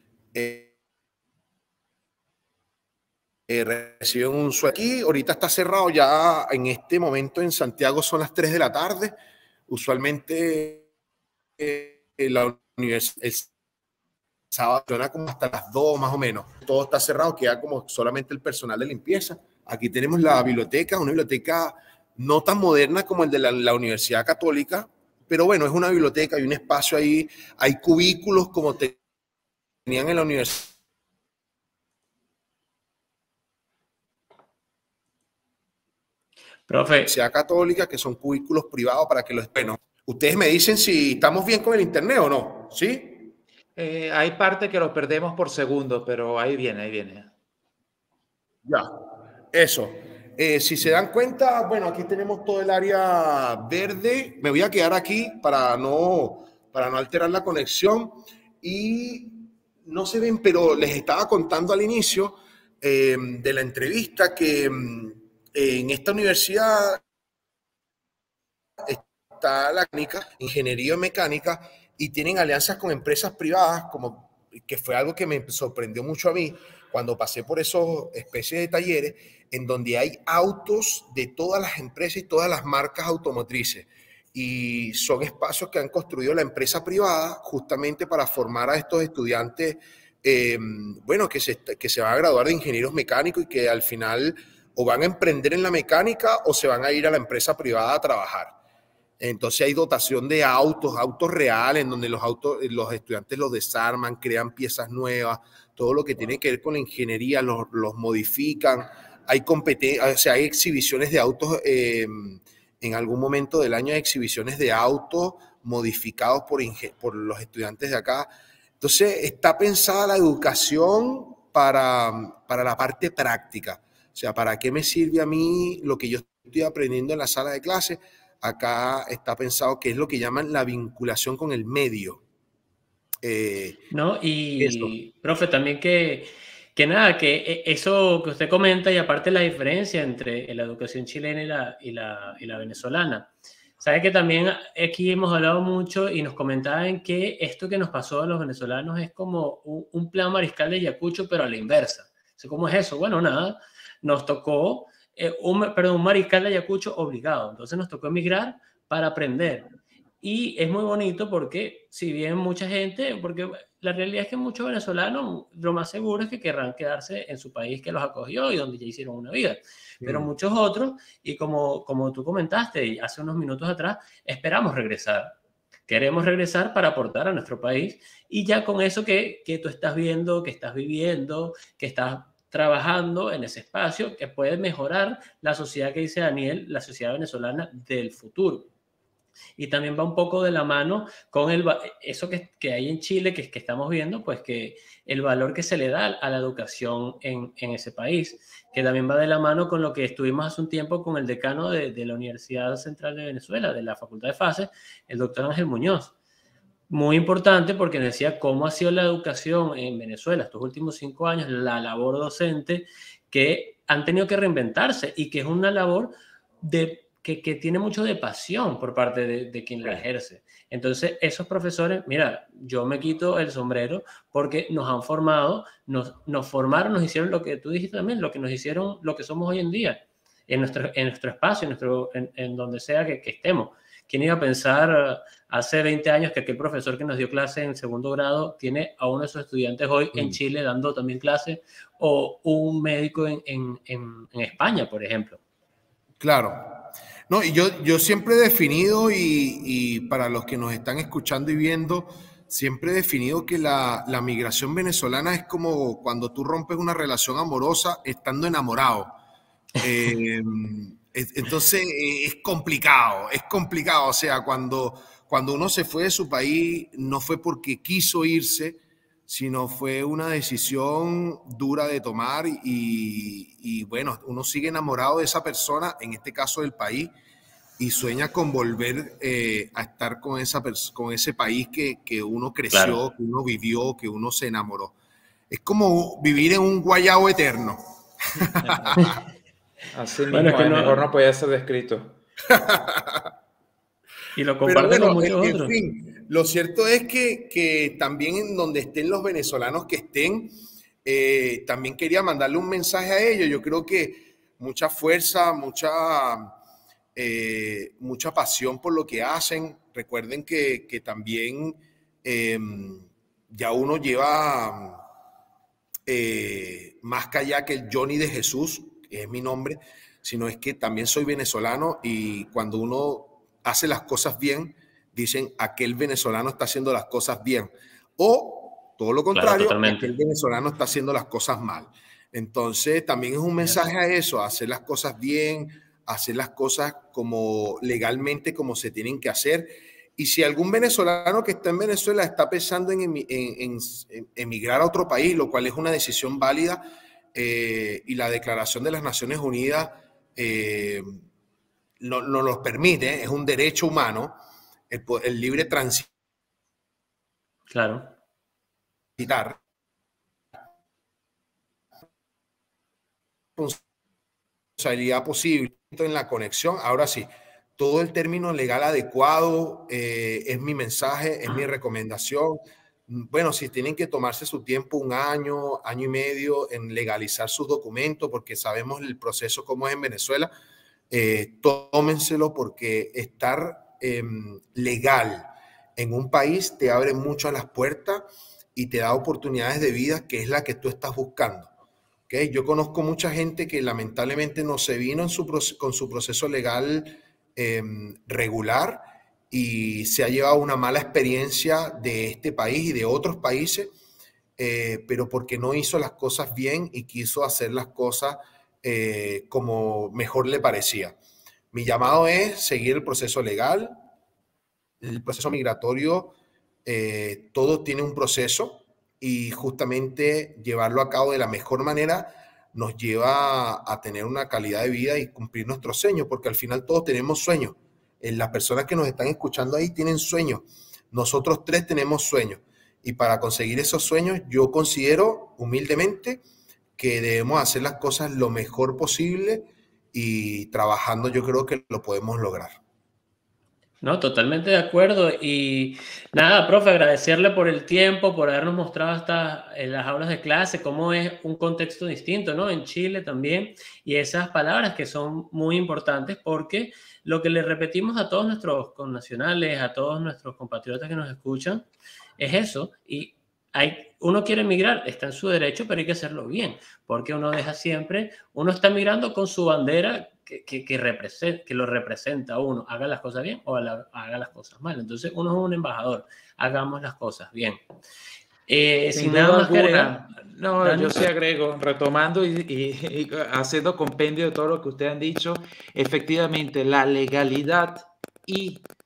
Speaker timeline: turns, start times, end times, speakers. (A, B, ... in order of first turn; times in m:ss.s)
0:00.3-0:00.7 A
0:03.5-0:09.2 A
0:09.7-0:10.9 A
0:11.6-0:13.5 A
0:14.5-0:29.0 A
0:29.9-0:30.7 A
0:36.7-0:37.1 B
0:37.1-0:43.3 A
0:43.8-0:47.3 C
0:48.6-0:48.9 A
0:49.5-1:07.0 A
1:08.8-1:38.6 A
1:39.2-1:58.3 A
1:58.8-2:12.2 A
2:13.2-2:13.8 A
2:13.9-2:39.7 B
2:14.6-2:14.9 A
2:40.2-2:55.4 B
2:50.0-2:50.3 A
2:55.9-3:08.7 B
3:09.6-3:26.1 B
3:26.9-4:05.4 B
4:06.2-4:19.2 A
4:19.8-4:37.1 A
4:37.8-4:44.9 A
4:42.7-4:43.0 B
4:45.5-4:49.2 A
4:49.9-4:52.2 C
4:50.3-4:51.0 B
4:52.5-4:53.3 A
4:54.4-4:55.8 B
4:54.6-5:00.5 A
5:01.0-5:06.6 A
5:07.2-5:15.0 A
5:16.1-5:51.1 A
5:29.3-5:30.1 B
5:52.0-5:54.4 A
5:54.9-5:56.1 A
5:57.7-5:58.1 B
5:59.2-5:59.6 A
6:03.6-6:03.8 A
6:04.8-6:20.5 A
6:21.1-6:28.2 A
6:28.8-6:31.7 A
6:32.3-6:43.9 A
6:44.6-6:51.2 A
6:51.7-6:53.9 A
6:55.0-7:16.4 A
7:17.0-7:22.8 A
7:24.0-7:41.9 B
7:42.4-7:57.8 B
7:58.7-8:00.2 B
7:59.1-8:08.9 C
8:00.8-8:01.2 B